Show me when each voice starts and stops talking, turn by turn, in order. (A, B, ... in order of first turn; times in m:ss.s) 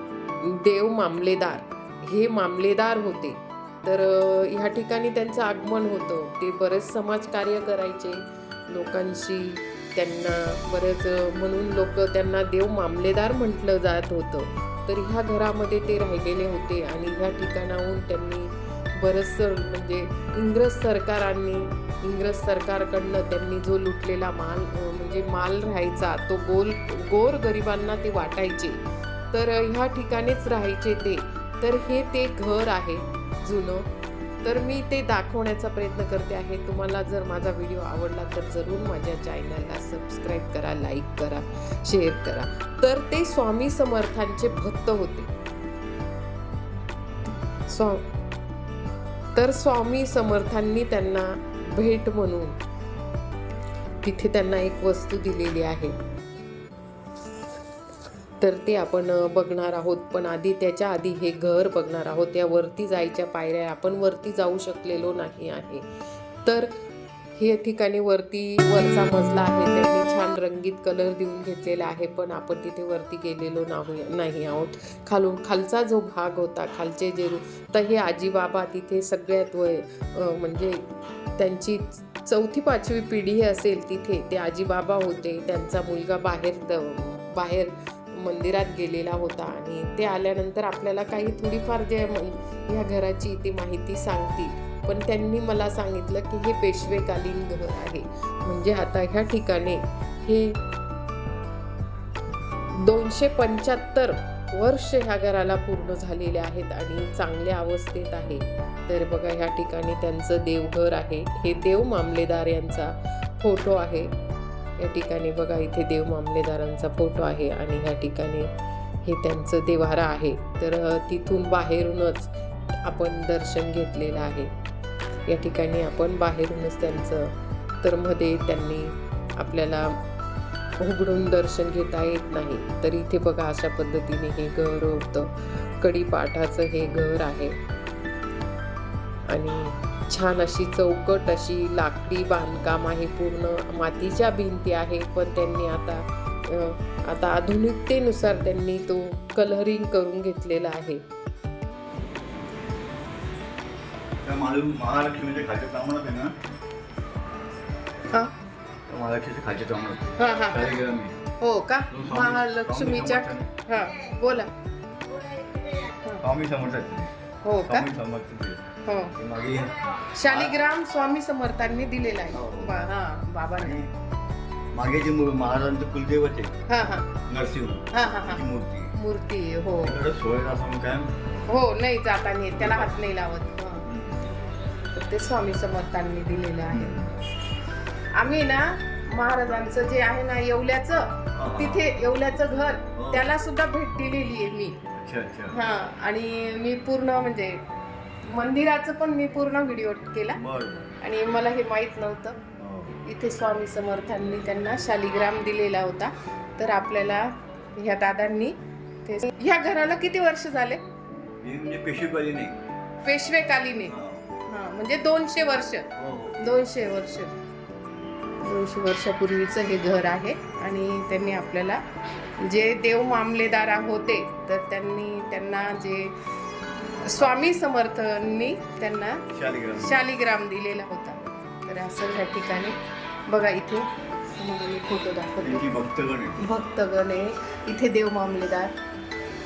0:00.4-0:33.9 A
0:34.4-0:45.3 A
0:47.7-0:48.1 A
0:49.4-0:52.6 A
0:54.0-0:56.0 A
0:58.4-1:05.9 A
1:06.4-1:06.7 A
1:07.4-1:40.6 A
1:42.7-1:54.1 A
1:54.8-1:58.5 A
1:59.0-2:04.5 A
2:05.3-2:10.0 A
2:10.8-2:17.6 A
2:19.3-2:31.0 A
2:34.2-2:36.3 B
2:38.9-2:41.2 B
2:40.2-2:40.7 A
2:41.4-2:44.5 A
2:41.9-2:43.5 B
2:46.2-2:47.1 B
2:47.4-2:47.8 A
2:47.6-2:50.6 B
2:48.9-2:49.1 A
2:50.2-2:53.8 A
2:52.3-2:52.7 B
2:53.6-2:53.9 B
2:54.7-2:56.5 B
2:56.7-2:57.0 A
2:57.3-2:58.9 B
2:57.9-2:58.3 A
2:59.0-3:00.0 A
2:59.8-3:01.1 B
3:01.5-3:03.8 A
3:02.6-3:02.9 B
3:03.8-3:04.3 B
3:04.9-3:06.9 A
3:06.7-3:07.1 B
3:08.2-3:14.8 A
3:11.4-3:11.8 B
3:13.0-3:13.3 B
3:14.9-3:15.6 B
3:15.5-3:17.6 A
3:18.3-3:20.4 A
3:20.4-3:20.8 B
3:20.9-3:22.4 A
3:22.6-3:23.0 B
3:23.1-3:30.8 A
3:31.4-3:32.6 B
3:33.0-3:33.9 A
3:33.8-3:34.3 B
3:34.5-3:35.9 A
3:36.0-3:36.4 B
3:36.4-3:37.3 A
3:38.4-3:41.8 A
3:42.4-3:46.2 A
3:47.1-3:49.2 A
3:49.3-3:50.0 B
3:49.8-3:52.8 A
3:53.3-3:55.6 A
3:55.4-3:56.5 B
3:56.5-3:58.7 A